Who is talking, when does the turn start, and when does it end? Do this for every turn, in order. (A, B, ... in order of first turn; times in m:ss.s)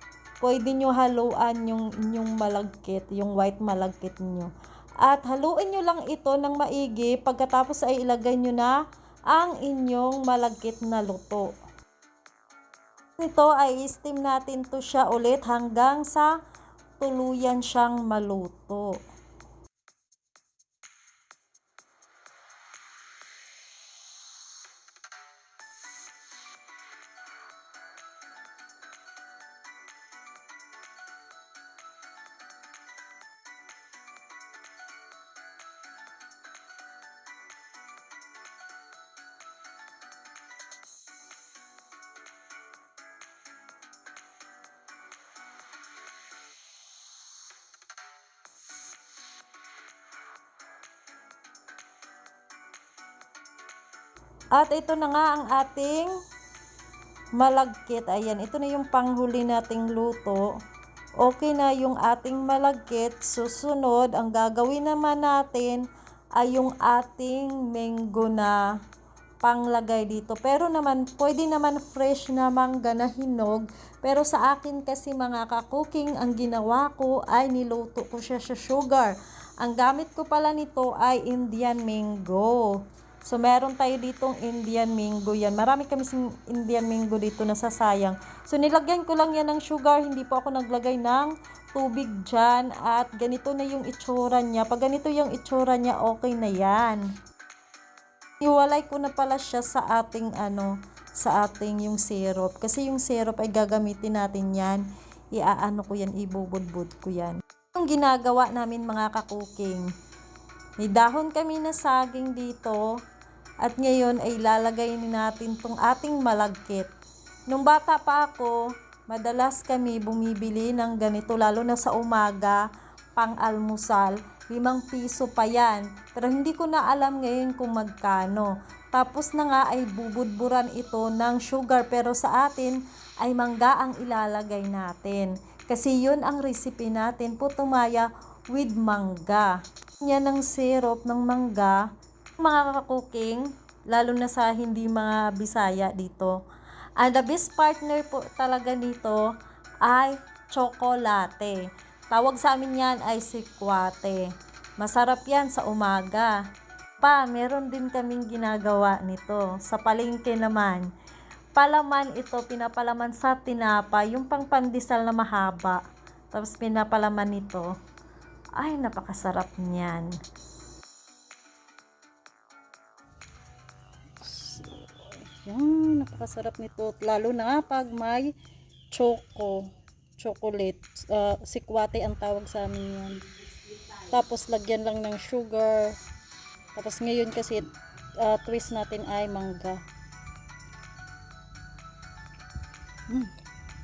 0:00.4-0:08.8 A
0:09.3-0:11.5 A
0:13.2-0:16.4 A
0:17.0-0:19.0 A
0:54.5-0:56.1 A
0:57.4-1:00.5 A
1:01.2-1:05.9 A
1:06.4-1:08.6 A
1:09.4-1:37.1 A
1:38.4-1:49.9 A
1:50.8-1:53.0 A
1:53.6-1:56.9 A
1:57.5-2:02.6 A
2:03.2-2:21.9 A
2:22.4-2:26.4 A
2:27.0-2:29.3 A
2:29.8-2:36.4 A
2:37.0-2:40.9 A
2:41.6-2:45.8 A
2:46.3-2:47.7 A
2:48.6-2:50.1 A
2:54.2-2:58.3 A
2:58.9-3:06.0 A
3:06.8-3:09.8 A